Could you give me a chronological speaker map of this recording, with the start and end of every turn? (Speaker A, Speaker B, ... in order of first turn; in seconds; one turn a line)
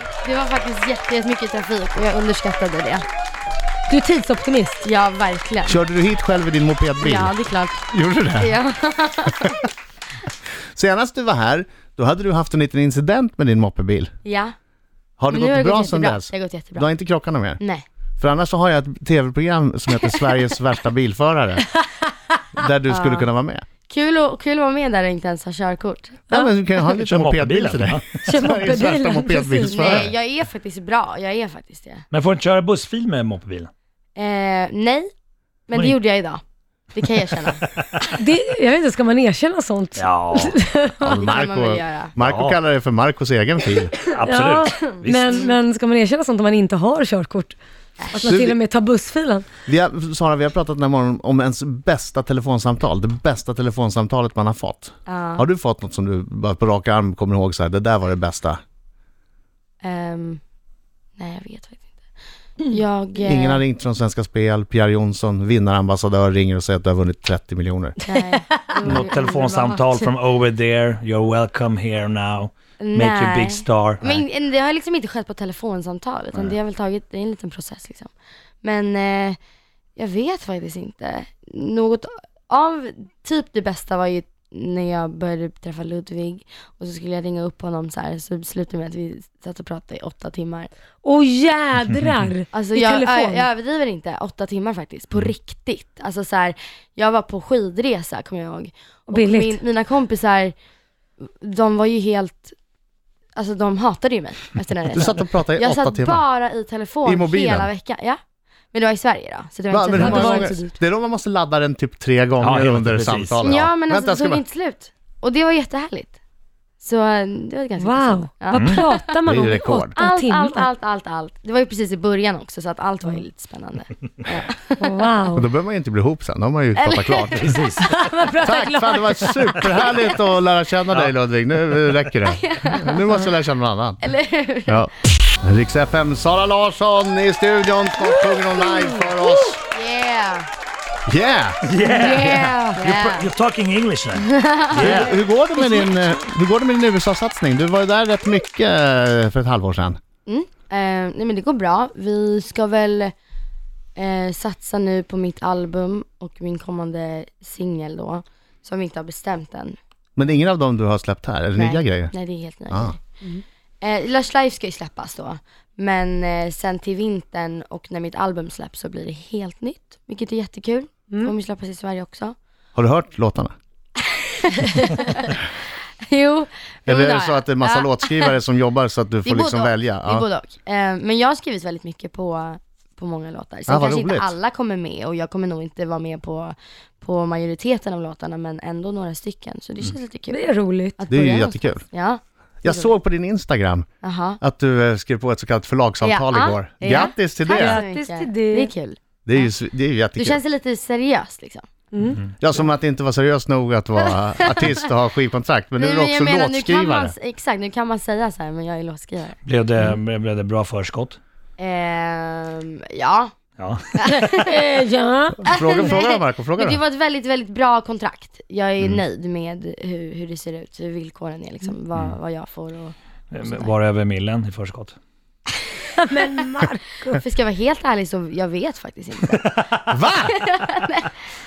Speaker A: 0.2-3.0
Speaker B: 3.9-4.8
Speaker A: 4.8-5.8
Speaker C: 5.7-7.3
Speaker A: 7.0-7.8
Speaker C: 7.9-8.5
Speaker A: 8.4-9.6
Speaker C: 10.7-14.1
Speaker A: 14.2-14.5
Speaker C: 15.2-17.6
Speaker A: 15.3-16.9
Speaker A: 17.6-17.8
Speaker C: 18.2-21.7
Speaker C: 22.6-23.6
Speaker A: 22.9-23.3
Speaker A: 23.9-26.2
Speaker C: 26.3-30.1
Speaker D: 27.0-28.3
Speaker B: 28.2-30.0
Speaker A: 29.7-32.0
Speaker D: 32.1-33.7
Speaker A: 34.2-35.1
Speaker A: 35.7-36.4
Speaker A: 36.9-37.6
Speaker D: 37.6-38.1
Speaker B: 38.2-41.3
Speaker D: 39.9-40.6
Speaker C: 41.0-44.0
Speaker A: 41.1-42.1
Speaker D: 42.2-42.6
Speaker D: 44.0-45.4
Speaker B: 44.2-47.5
Speaker A: 44.9-45.5
Speaker B: 48.1-49.4
Speaker C: 48.1-48.5
Speaker C: 49.6-58.6
Speaker A: 55.0-55.5
Speaker A: 59.8-60.4
Speaker A: 61.2-61.8
Speaker A: 62.6-63.6
Speaker C: 63.2-68.0
Speaker A: 68.0-69.8
Speaker D: 68.8-74.2
Speaker A: 72.8-78.1
Speaker A: 78.6-79.4
Speaker A: 80.0-90.7
Speaker B: 91.0-93.5
Speaker A: 92.5-100.5
Speaker B: 99.1-99.6
Speaker A: 101.2-102.5
Speaker A: 103.3-108.2
Speaker C: 104.9-106.2
Speaker C: 107.0-107.7
Speaker A: 108.7-110.7
Speaker C: 109.7-114.4
Speaker B: 110.0-110.6
Speaker D: 112.4-113.4
Speaker A: 113.4-116.1
Speaker A: 116.8-119.1
Speaker B: 117.8-120.7
Speaker D: 118.5-118.8
Speaker C: 119.2-119.9
Speaker A: 120.0-125.0
Speaker B: 124.8-125.5
Speaker C: 125.3-127.6
Speaker A: 126.8-127.5
Speaker D: 127.4-127.9
Speaker B: 127.8-130.0
Speaker C: 128.4-134.0
Speaker A: 132.3-133.0
Speaker A: 134.0-134.8
Speaker C: 134.7-139.6
Speaker B: 138.5-139.3
Speaker A: 139.6-140.5
Speaker C: 141.1-141.6
Speaker D: 141.6-145.2
Speaker A: 141.8-143.3
Speaker B: 141.9-142.7
Speaker A: 144.1-145.2
Speaker C: 144.7-150.0
Speaker B: 145.6-145.9
Speaker A: 150.2-153.1
Speaker A: 154.0-159.8
Speaker C: 160.2-162.1
Speaker A: 161.6-163.0
Speaker C: 162.7-162.9
Speaker A: 163.8-172.3
Speaker C: 172.7-173.5
Speaker A: 174.2-175.4
Speaker A: 176.1-178.3
Speaker C: 176.9-180.2
Speaker A: 179.2-190.4
Speaker C: 183.7-184.3
Speaker B: 190.3-191.0
Speaker A: 191.0-192.9
Speaker C: 191.1-191.8
Speaker C: 192.6-193.9
Speaker A: 194.0-194.4
Speaker C: 194.4-197.8
Speaker A: 196.0-199.5
Speaker B: 197.5-198.7
Speaker C: 199.2-200.4
Speaker A: 200.2-201.6
Speaker B: 201.9-202.2
Speaker C: 202.4-207.1
Speaker A: 204.1-204.8
Speaker A: 205.8-209.4
Speaker D: 209.4-211.2
Speaker A: 211.6-213.3
Speaker D: 213.6-214.5
Speaker A: 214.0-214.5
Speaker B: 214.3-215.4
Speaker C: 215.4-216.8
Speaker A: 215.5-223.7
Speaker D: 223.3-224.9
Speaker B: 226.0-227.2
Speaker A: 227.1-229.5
Speaker D: 229.3-229.9
Speaker C: 229.9-230.3
Speaker A: 230.2-231.1